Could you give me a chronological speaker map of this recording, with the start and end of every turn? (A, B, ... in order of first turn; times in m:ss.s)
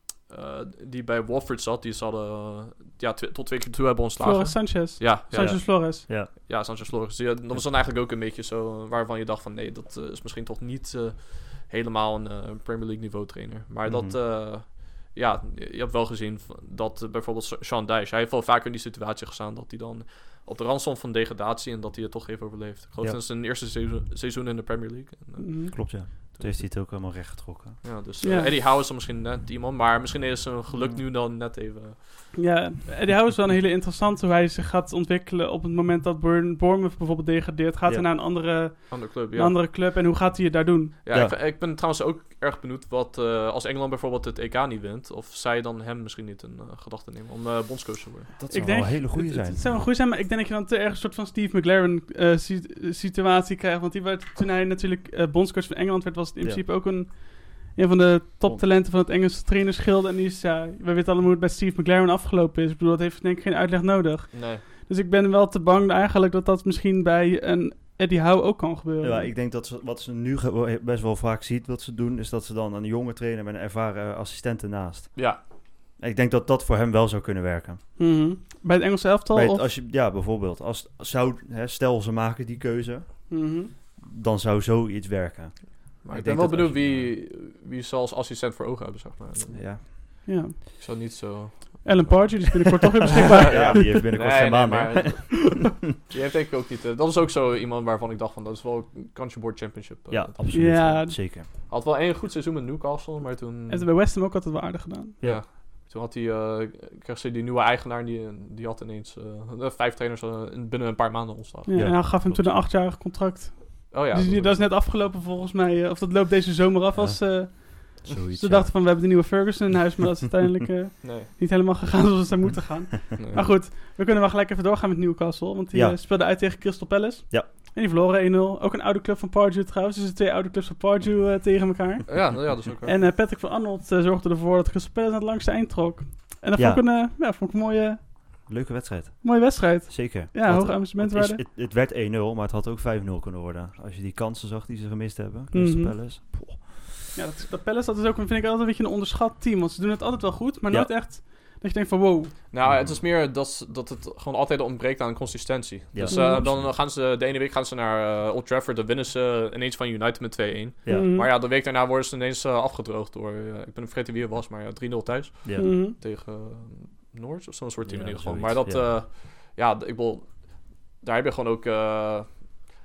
0:00.3-0:27.2 A
0:04.2-0:06.0 B
0:05.3-0:06.5 C
0:13.8-0:14.2 C
0:25.4-0:25.8 B
0:25.7-0:27.9 C
0:27.8-0:32.2 A
0:28.2-0:28.6 B
0:30.7-0:31.0 C
0:32.3-0:41.0 B
0:38.9-0:39.6 A
0:41.0-0:48.4 A
0:41.1-0:41.4 C
0:48.4-0:49.7 C
0:48.5-1:09.3 B
1:04.3-1:04.6 A
1:09.0-1:17.8 C
1:15.2-1:15.4 A
1:18.0-1:19.7 B
1:19.3-1:27.2 C
1:23.3-1:23.7 B
1:26.0-1:30.3 A
1:29.5-1:29.8 C
1:30.3-1:30.6 B
1:30.8-1:40.8 A
1:31.8-1:34.0 B
1:33.2-1:35.7 C
1:40.1-1:41.5 C
1:40.5-1:41.2 B
1:41.5-1:43.9 A
1:43.7-1:45.2 B
1:45.2-1:52.1 A
1:51.7-2:18.5 B
1:51.7-1:52.6 C
1:53.9-1:54.6 A
1:57.0-1:59.1 C
2:01.0-2:01.3 A
2:03.2-2:03.5 A
2:05.7-2:06.0 C
2:12.1-2:13.0 A
2:16.6-2:16.8 C
2:18.4-2:26.9 C
2:19.2-2:21.4 B
2:25.5-2:26.0 B
2:27.2-2:32.4 B
2:32.5-2:52.7 A
2:32.6-2:33.0 C
2:35.9-2:36.8 C
2:36.1-2:36.5 B
2:40.8-2:41.2 C
2:40.9-2:41.3 B
2:45.4-2:45.8 C
2:45.6-2:46.0 B
2:47.8-2:49.0 C